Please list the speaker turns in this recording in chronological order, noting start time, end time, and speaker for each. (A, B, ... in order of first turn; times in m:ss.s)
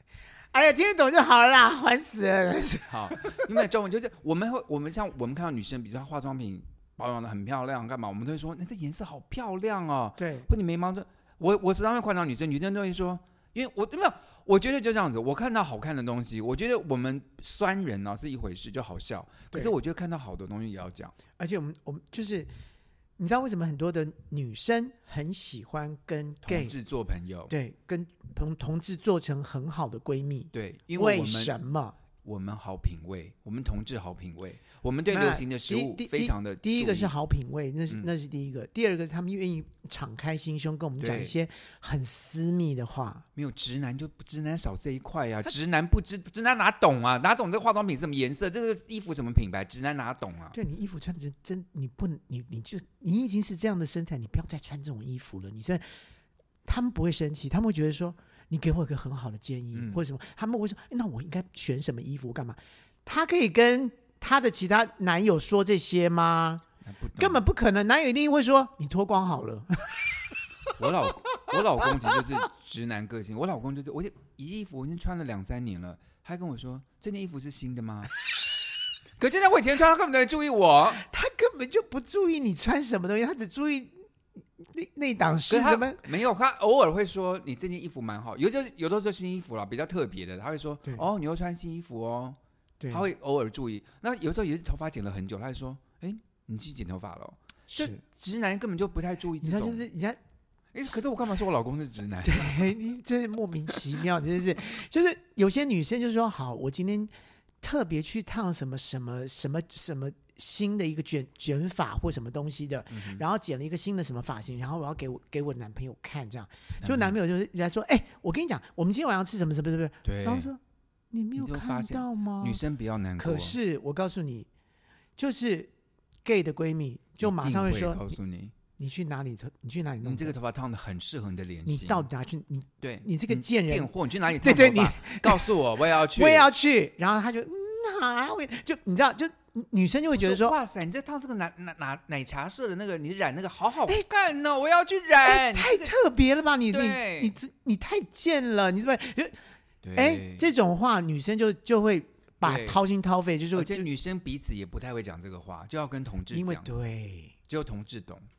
0:00.5-0:03.5 A
0:02.9-0:21.2 B
0:10.2-0:10.5 A
0:21.4-0:22.5 A
0:23.2-0:26.7 A
0:26.4-0:27.5 B
0:27.5-0:32.0 A
0:30.5-0:31.5 B
0:32.2-0:37.1 B
0:35.1-0:43.2 A
0:41.0-0:41.3 B
0:43.4-0:50.6 B
0:50.5-0:55.8 A
0:56.6-1:06.6 A
0:59.7-1:00.0 B
1:06.8-1:07.4 B
1:07.2-1:10.0 A
1:10.8-1:18.1 B
1:19.2-1:21.0 B
1:21.0-1:24.0 A
1:24.6-1:26.0 A
1:25.5-1:32.4 B
1:32.8-1:33.1 A
1:32.9-1:39.8 B
1:37.7-1:38.0 A
1:39.4-1:40.2 A
1:40.7-1:42.7 B
1:42.2-2:00.6 A
1:52.9-1:53.2 B
1:56.8-1:57.1 B
2:00.0-2:00.5 B
2:01.1-2:02.6 A
2:01.4-2:03.6 B
2:03.2-2:04.5 A
2:05.2-2:05.7 A
2:06.2-2:08.2 A
2:07.2-2:08.5 B
2:08.8-2:10.3 A
2:10.0-2:12.1 B
2:11.6-2:15.5 A
2:12.8-2:16.5 B
2:16.1-2:20.5 A
2:20.1-2:25.9 B
2:25.2-2:29.4 A
2:26.7-2:27.3 B
2:29.8-2:30.4 B
2:30.0-2:33.8 A
2:32.4-2:32.8 B
2:33.5-2:36.7 B
2:36.3-2:37.3 A
2:37.5-2:38.3 B